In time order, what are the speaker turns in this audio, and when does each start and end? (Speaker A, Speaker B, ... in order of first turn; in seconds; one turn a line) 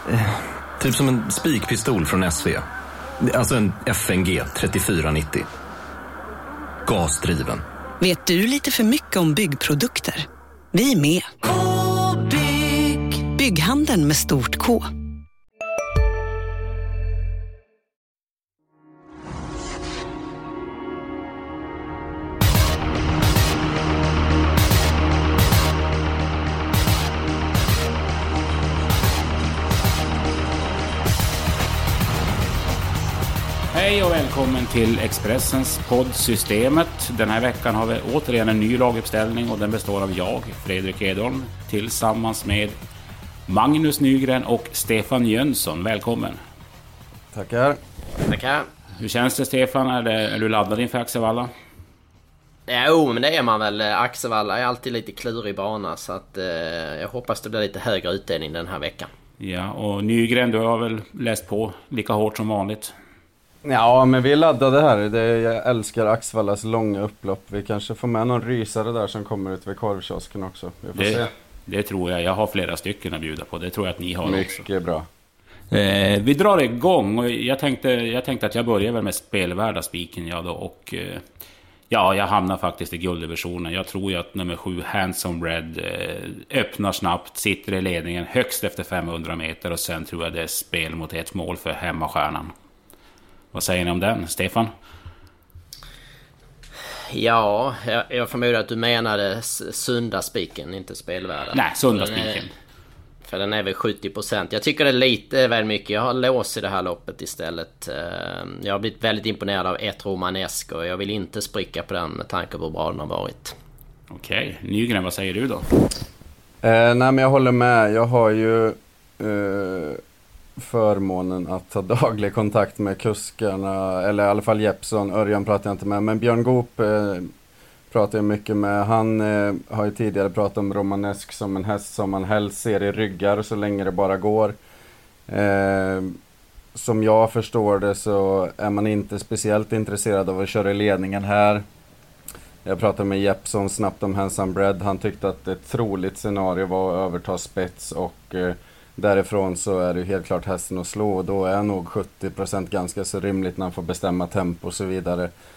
Speaker A: 0.1-2.6
Speaker A: 3.2-5.5
Speaker A: 6.8-7.6
Speaker B: 8.0-14.9
Speaker C: 33.7-42.8
Speaker C: 43.5-46.4
Speaker D: 47.3-47.8
Speaker E: 48.3-48.7
Speaker C: 49.0-51.5
Speaker E: 52.7-59.1
Speaker C: 59.4-62.9
Speaker D: 63.6-71.3
Speaker C: 71.0-74.6
Speaker D: 74.2-75.1
Speaker C: 75.7-81.2
Speaker C: 81.9-92.5
Speaker C: 93.5-94.7
Speaker E: 97.1-102.4
Speaker C: 101.5-102.5
Speaker E: 103.3-113.5
Speaker C: 114.1-115.7
Speaker D: 116.6-120.0
Speaker D: 120.6-127.3
Speaker D: 127.9-134.6
Speaker D: 135.3-136.2
Speaker D: 136.7-141.7
Speaker D: 142.7-155.3